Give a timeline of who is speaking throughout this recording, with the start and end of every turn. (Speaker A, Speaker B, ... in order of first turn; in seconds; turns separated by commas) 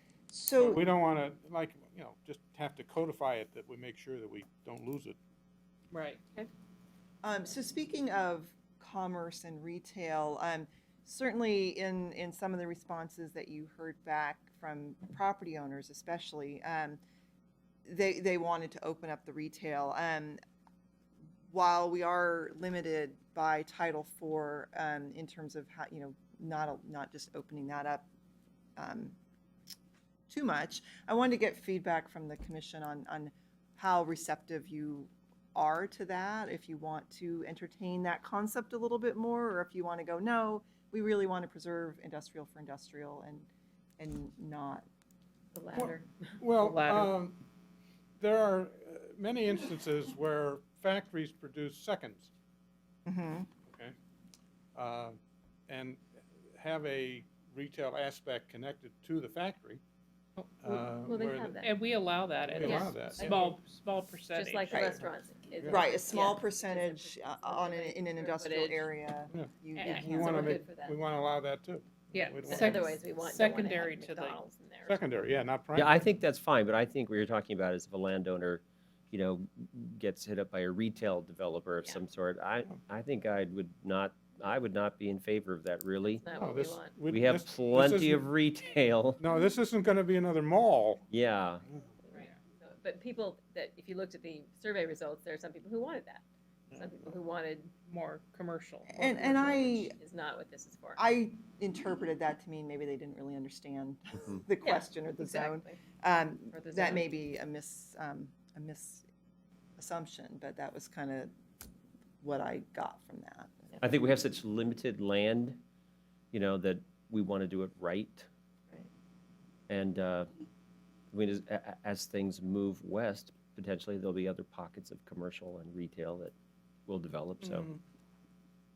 Speaker A: 0.3-0.8, Speaker B: 0.6-5.2, Speaker C: 5.9-6.2, Speaker A: 7.2-17.0, Speaker A: 17.9-20.4, Speaker A: 21.5-28.1, Speaker A: 28.8-29.1, Speaker A: 30.3-44.9, Speaker D: 45.5-46.4, Speaker B: 45.7-47.4, Speaker C: 46.6-47.1, Speaker B: 48.2-52.3, Speaker A: 53.0-53.5, Speaker B: 53.6-53.9, Speaker B: 54.7-56.0, Speaker B: 56.5-59.8, Speaker B: 60.6-61.6, Speaker D: 61.0-61.7, Speaker C: 61.6-65.0, Speaker B: 62.4-63.6, Speaker D: 62.6-63.5, Speaker D: 64.3-68.9, Speaker A: 64.7-65.0, Speaker A: 65.7-70.4, Speaker B: 69.3-73.0, Speaker D: 69.8-71.0, Speaker C: 72.1-74.4, Speaker D: 72.4-75.0, Speaker B: 74.8-76.0, Speaker E: 75.7-86.2, Speaker D: 86.0-86.9, Speaker B: 86.3-88.3, Speaker E: 87.1-89.2, Speaker B: 89.2-91.0, Speaker E: 91.1-91.6, Speaker D: 92.1-97.7, Speaker C: 97.9-99.5, Speaker A: 98.9-100.0, Speaker D: 99.5-101.0, Speaker A: 101.0-109.0, Speaker D: 104.6-105.8, Speaker D: 106.5-107.2, Speaker A: 109.8-111.3, Speaker A: 112.2-113.7, Speaker E: 113.8-115.6, Speaker E: 116.3-118.3, Speaker E: 119.7-120.3, Speaker E: 121.1-126.3, Speaker E: 126.9-127.7, Speaker B: 127.5-127.8